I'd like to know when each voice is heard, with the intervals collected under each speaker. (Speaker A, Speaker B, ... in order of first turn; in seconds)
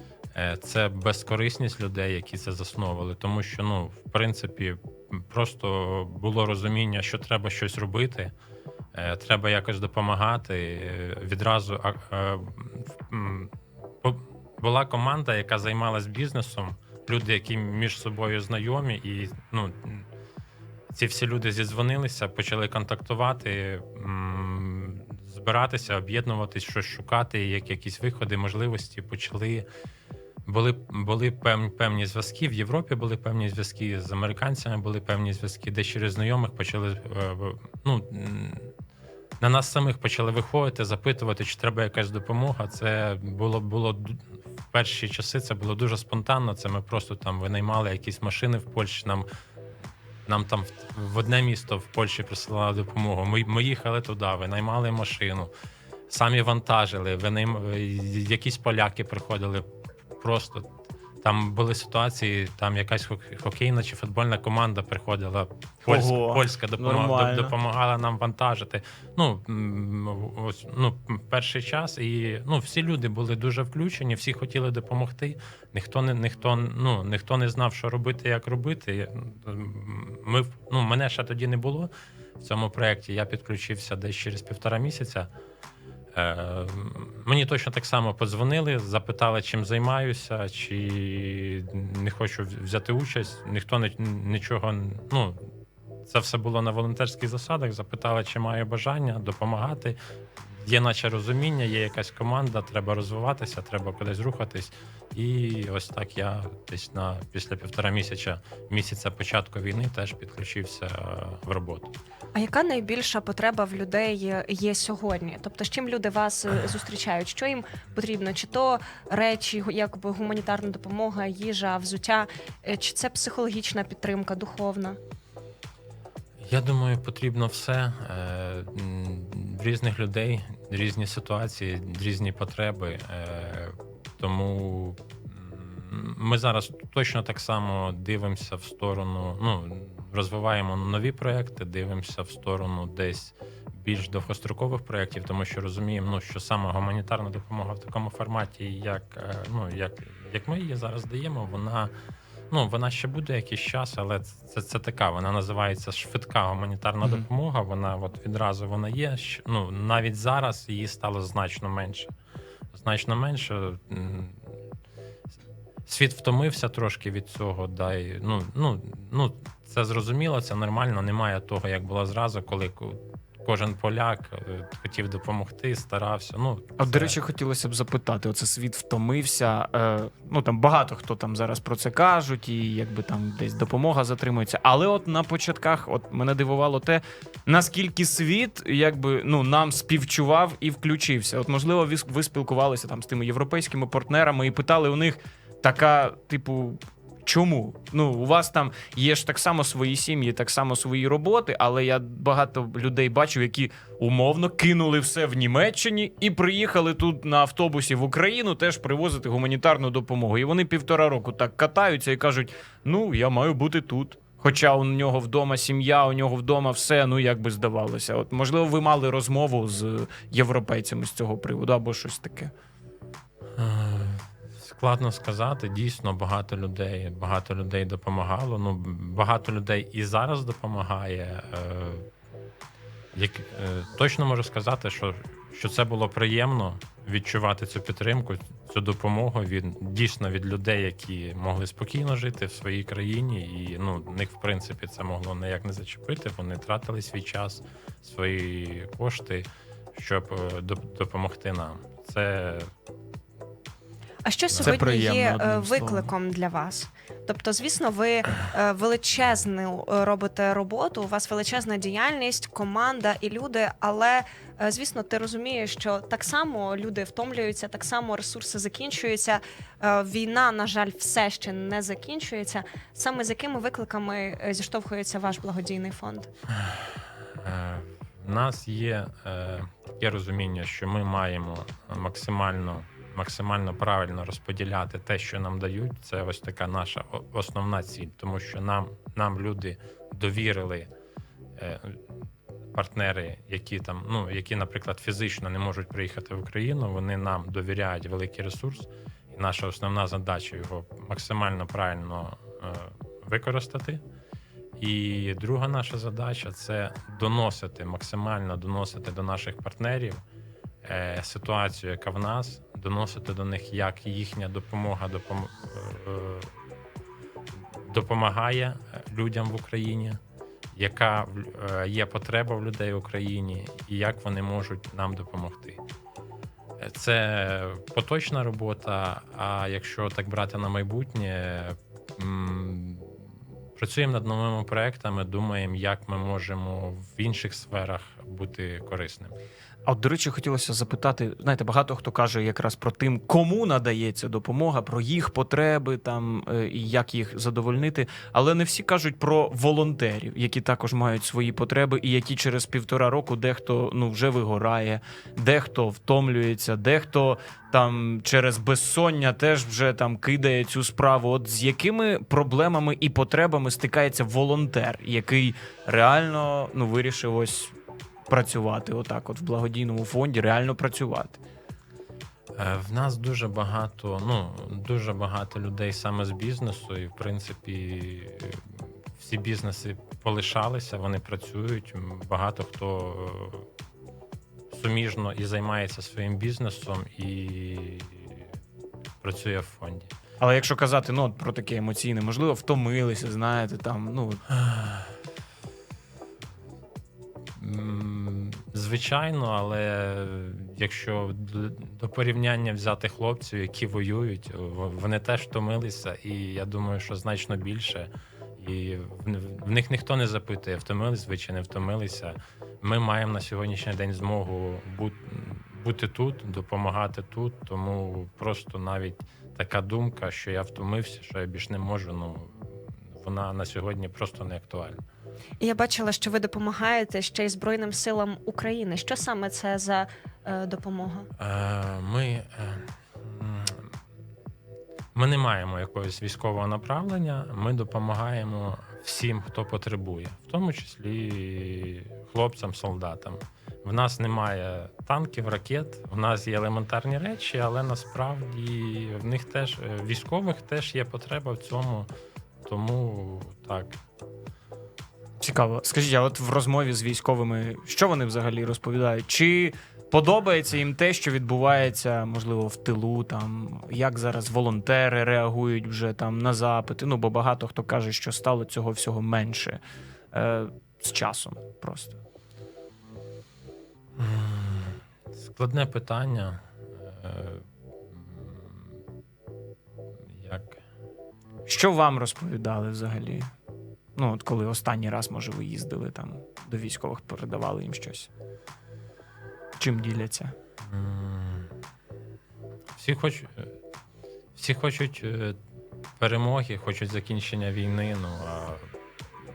Speaker A: 0.3-8.3, 8.9-20.1, 20.9-29.7, 30.5-38.7, 39.4-49.3, 50.3-55.5, 56.1-59.7, 60.2-60.7, 61.2-85.3, 86.2-95.5, 96.1-112.0, 126.4-151.9, 152.5-162.1, 162.7-164.4, 165.9-177.2, 223.6-232.1, 233.1-252.7, 254.5-254.8, 276.6-290.9, 291.6-292.0, 292.7-304.0, 304.8-310.2, 310.8-316.5, 317.8-320.2, 320.7-325.8, 326.8-333.2, 333.8-339.3, 372.6-383.7, 384.7-388.5, 389.2-390.1, 394.5-395.1, 397.6-425.0, 431.4-433.9, 435.1-452.1, 452.6-454.0, 474.2-478.9, 480.3-480.8, 490.8-491.7, 493.0-493.7, 494.6-495.6, 496.2-498.9
Speaker B: 65.9-67.5, 176.8-222.5, 254.6-256.1, 339.9-367.8, 368.3-371.4, 390.4-394.4, 455.4-469.8, 470.3-472.2, 481.7-483.5, 484.2-488.3, 489.8-490.6
Speaker C: 112.3-125.0, 254.2-276.3, 425.6-431.3